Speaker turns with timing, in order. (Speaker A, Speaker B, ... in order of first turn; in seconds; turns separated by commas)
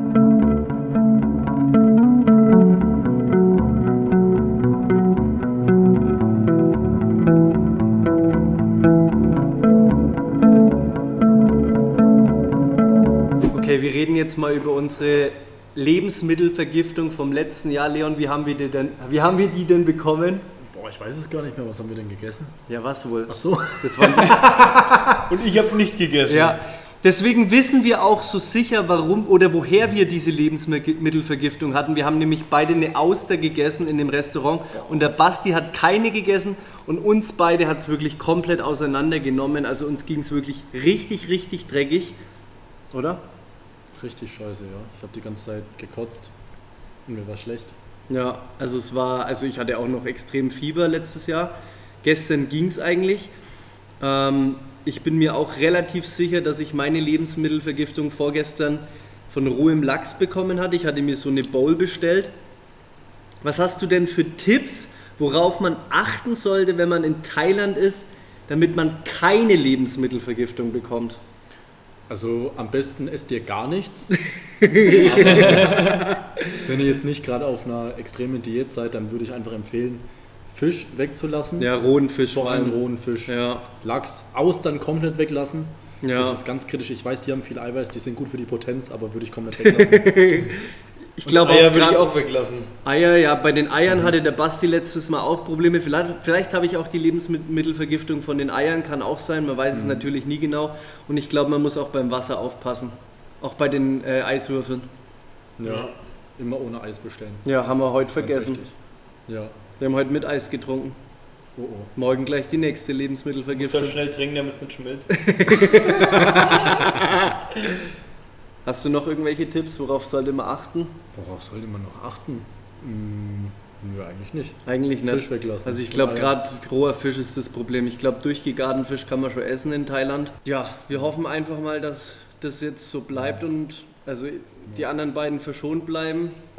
Speaker A: 13.5-20.5, Speaker B: 20.6-22.6, Speaker A: 22.7-24.8, Speaker B: 23.3-25.3, Speaker C: 25.2-26.6, Speaker A: 26.3-42.2, Speaker A: 42.9-43.2, Speaker B: 43.9-46.3, Speaker B: 47.1-47.8, Speaker A: 48.1-53.3, Speaker A: 54.0-62.3, Speaker A: 63.4-71.2, Speaker B: 72.1-74.1, Speaker A: 74.2-76.6, Speaker B: 74.9-81.7, Speaker C: 75.2-76.1, Speaker A: 81.6-83.7, Speaker B: 82.3-90.6, Speaker A: 86.0-86.4, Speaker A: 89.6-92.0, Speaker C: 91.2-92.7, Speaker A: 92.8-104.9, Speaker B: 93.9-94.2, Speaker B: 99.7-100.1, Speaker B: 105.6-107.5, Speaker C: 105.6-106.0, Speaker A: 107.5-108.6, Speaker B: 108.2-108.7, Speaker B: 109.3-109.5, Speaker A: 109.8-111.0, Speaker B: 111.6-111.9, Speaker A: 112.0-114.0, Speaker C: 113.5-115.9, Speaker A: 115.1-117.3, Speaker B: 116.0-117.2, Speaker A: 118.7-121.0, Speaker B: 121.1-126.4, Speaker A: 124.7-136.4, Speaker B: 130.9-131.2, Speaker B: 133.1-133.5